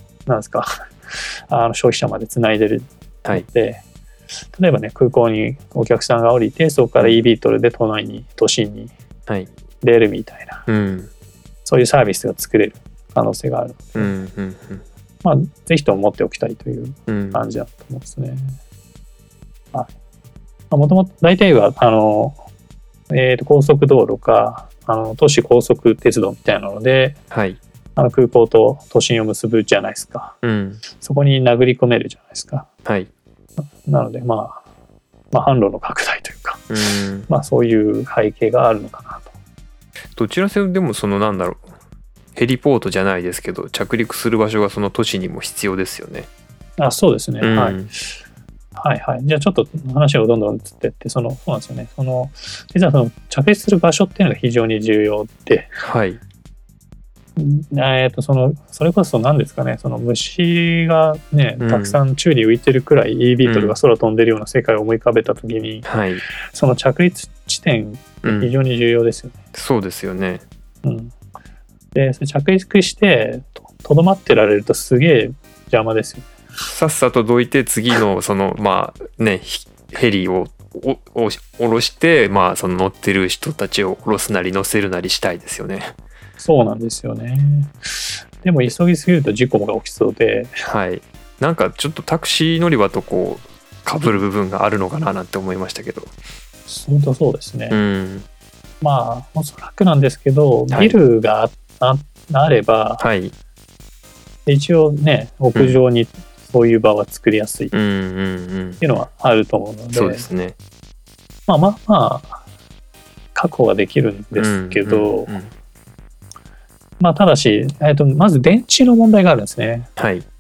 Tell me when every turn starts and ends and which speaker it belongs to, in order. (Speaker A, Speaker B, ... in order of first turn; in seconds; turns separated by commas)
Speaker A: 0.3-3.8, Speaker A: 4.5-8.9, Speaker A: 9.8-10.6, Speaker B: 10.7-11.1, Speaker A: 11.7-14.2, Speaker B: 14.0-14.8, Speaker A: 15.2-18.6, Speaker B: 17.1-17.4, Speaker A: 20.7-22.4, Speaker A: 23.1-27.2, Speaker B: 27.3-27.6, Speaker A: 28.0-30.4, Speaker B: 30.4-30.8, Speaker A: 31.0-32.7, Speaker A: 33.8-34.6, Speaker A: 35.3-36.7, Speaker B: 36.7-37.3, Speaker A: 37.3-39.3, Speaker B: 40.1-41.7, Speaker B: 42.4-46.3, Speaker A: 46.8-47.8, Speaker B: 47.4-47.9, Speaker A: 48.8-55.7, Speaker B: 55.8-56.2, Speaker A: 57.4-65.9, Speaker B: 61.6-62.0, Speaker B: 63.5-63.8, Speaker B: 65.8-66.2, Speaker A: 66.5-69.3, Speaker B: 68.2-68.5, Speaker B: 69.5-70.4, Speaker A: 70.8-71.1, Speaker A: 72.0-76.3, Speaker B: 76.7-85.9, Speaker A: 86.4-87.9, Speaker A: 88.4-90.6, Speaker B: 90.7-96.1, Speaker A: 96.7-97.8, Speaker B: 97.7-98.3, Speaker A: 98.8-103.0, Speaker B: 100.7-101.0, Speaker B: 103.0-103.3, Speaker A: 104.5-107.7, Speaker B: 107.7-108.8, Speaker A: 108.8-110.3, Speaker B: 110.0-110.6, Speaker A: 111.5-112.4, Speaker A: 113.3-115.3, Speaker B: 114.3-115.5, Speaker A: 117.0-119.9, Speaker B: 120.0-120.2